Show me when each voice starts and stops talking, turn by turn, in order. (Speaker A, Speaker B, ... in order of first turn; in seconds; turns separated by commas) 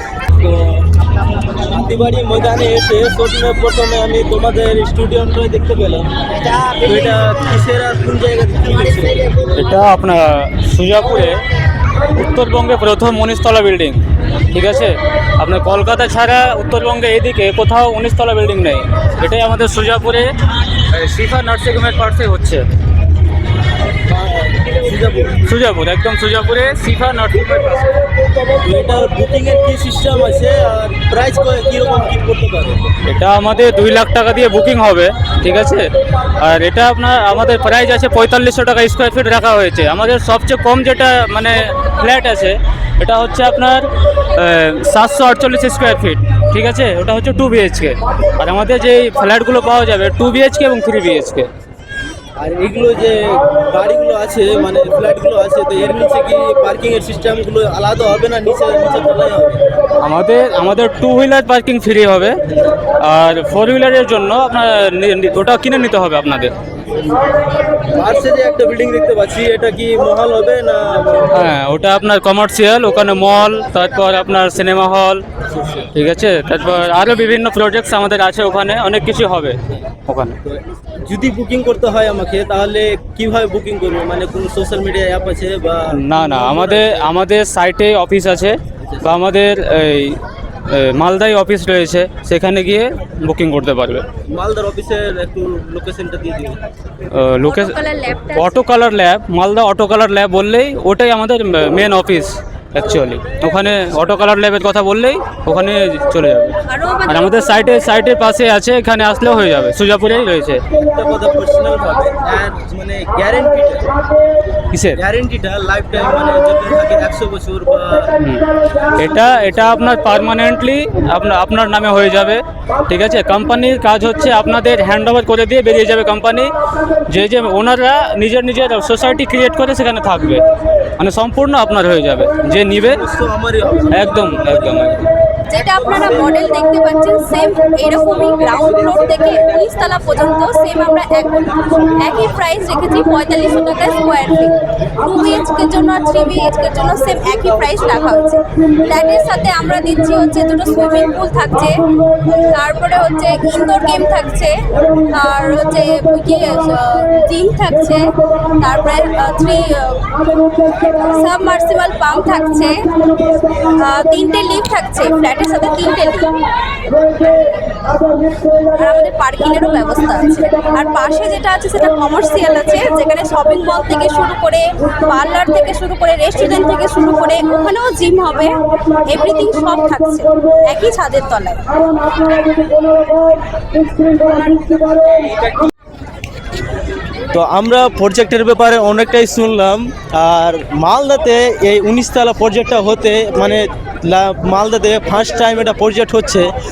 Speaker A: 0.4-0.9, Speaker A: 1.4-9.5, Speaker B: 9.5-11.4, Speaker B: 12.1-20.3, Speaker B: 20.9-22.6, Speaker A: 24.1-25.5, Speaker B: 25.4-28.0, Speaker A: 28.6-32.9, Speaker B: 33.0-35.9, Speaker B: 36.4-51.5, Speaker A: 52.4-59.6, Speaker B: 60.0-62.4, Speaker B: 63.0-66.6, Speaker A: 67.9-71.5, Speaker B: 71.3-75.2, Speaker A: 75.5-75.8, Speaker B: 75.9-80.4, Speaker A: 80.5-87.1, Speaker B: 85.9-94.1, Speaker A: 88.8-89.1, Speaker A: 94.3-96.6, Speaker B: 97.1-110.6, Speaker C: 97.4-98.7, Speaker C: 106.7-108.0, Speaker A: 110.9-113.9, Speaker B: 114.7-115.0, Speaker A: 115.0-118.1, Speaker B: 118.2-126.5, Speaker B: 127.1-130.4, Speaker B: 131.0-133.0, Speaker A: 132.8-135.0, Speaker B: 133.9-135.1, Speaker C: 135.5-158.1, Speaker A: 135.6-136.6, Speaker A: 138.7-139.7, Speaker C: 158.6-162.9, Speaker A: 163.1-163.8, Speaker C: 163.8-166.4, Speaker C: 168.7-181.8, Speaker A: 185.2-185.5, Speaker A: 187.3-196.5